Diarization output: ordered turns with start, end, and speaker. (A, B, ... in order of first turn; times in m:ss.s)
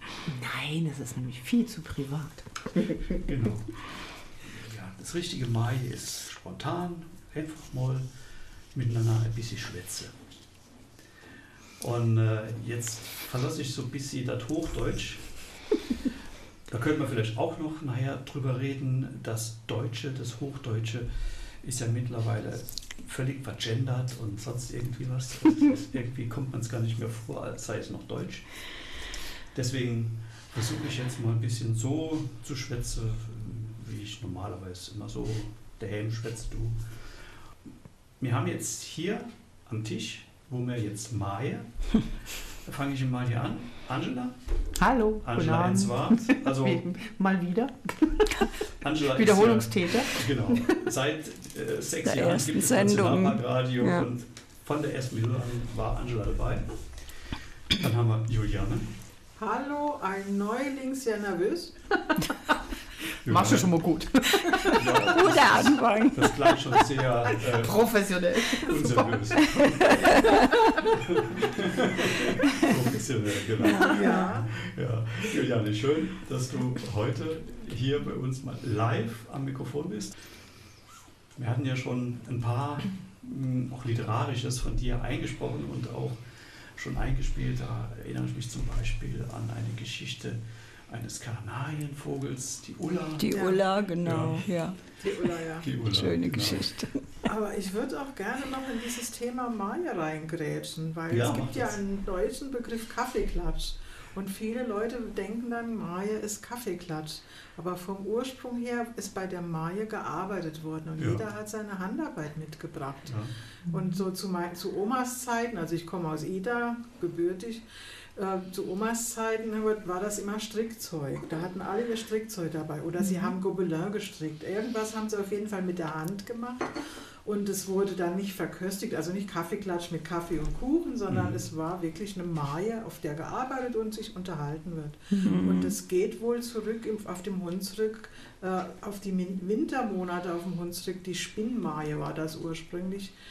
0:00.3-0:02.9 A
0:03.2-0:08.1 B
0:08.7-0:10.2 B
0:11.8-0:15.3 B
0:16.7-0:21.1 B
0:21.6-0:28.5 B
0:29.5-0:36.8 B
0:38.2-0:41.7 B
0:42.6-0:44.4 B
0:44.8-0:48.2 A
0:45.2-0:46.9 B
0:48.8-0:56.7 B
0:49.2-0:50.6 A
0:52.0-0:53.4 C
0:57.7-0:58.9 B
0:59.4-1:01.8 D
1:03.2-1:03.8 B
1:03.3-1:04.7 A
1:04.7-1:10.3 B
1:05.1-1:06.5 C
1:07.5-1:09.1 A
1:10.0-1:10.6 C
1:10.9-1:20.2 B
1:13.7-1:14.3 C
1:13.8-1:14.5 D
1:21.4-1:26.2 B
1:26.8-1:33.3 B
1:33.2-1:34.8 C
1:33.3-1:33.6 D
1:34.0-1:34.5 B
1:35.0-1:35.7 D
1:35.6-1:36.7 B
1:35.9-1:37.0 C
1:37.2-1:53.2 D
1:41.1-1:41.8 B
1:51.0-1:51.2 B
1:53.0-1:53.3 B
1:53.7-2:23.1 D
2:11.1-2:11.4 B
2:15.1-2:15.4 A
2:15.2-2:15.8 C